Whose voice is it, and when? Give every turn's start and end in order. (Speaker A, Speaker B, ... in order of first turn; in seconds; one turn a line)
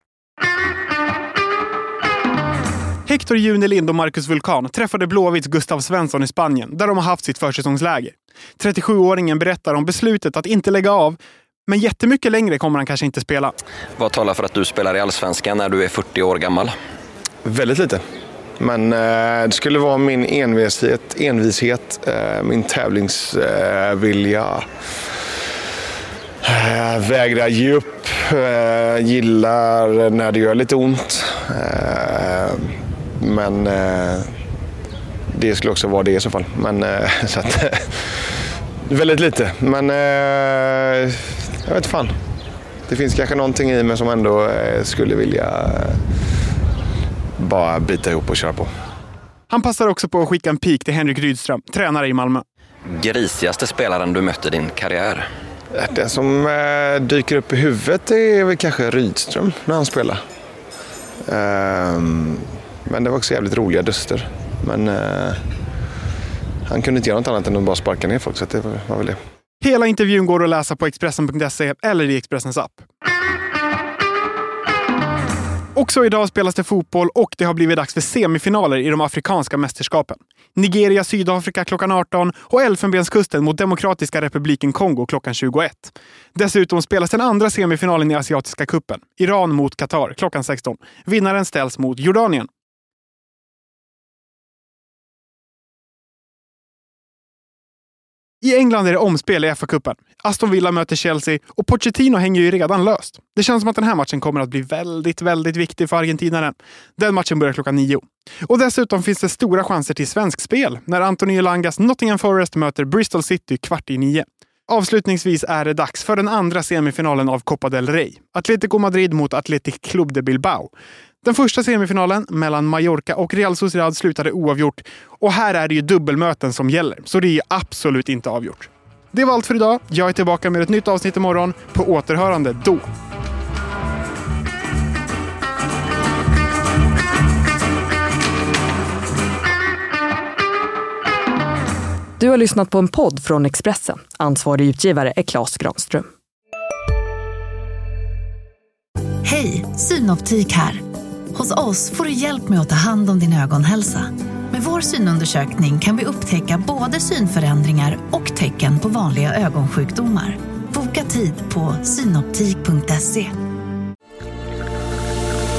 Speaker A: 3.1-13.5
Speaker B: 14.0-16.7
Speaker C: 17.4-18.0
Speaker C: 18.6-24.6
Speaker C: 26.4-34.3
Speaker C: 35.3-38.3
Speaker C: 38.9-42.1
Speaker C: 42.9-46.0
Speaker C: 47.4-48.7
Speaker A: 49.5-52.4
Speaker B: 52.9-55.3
Speaker C: 55.8-60.2
Speaker C: 61.3-65.4
Speaker C: 66.7-69.2
Speaker A: 69.6-72.9
Speaker A: 75.7-92.5
Speaker A: 98.4-120.7
Speaker A: 121.2-132.9
Speaker D: 142.2-146.1
Speaker E: 149.2-150.8
Speaker E: 151.3-163.3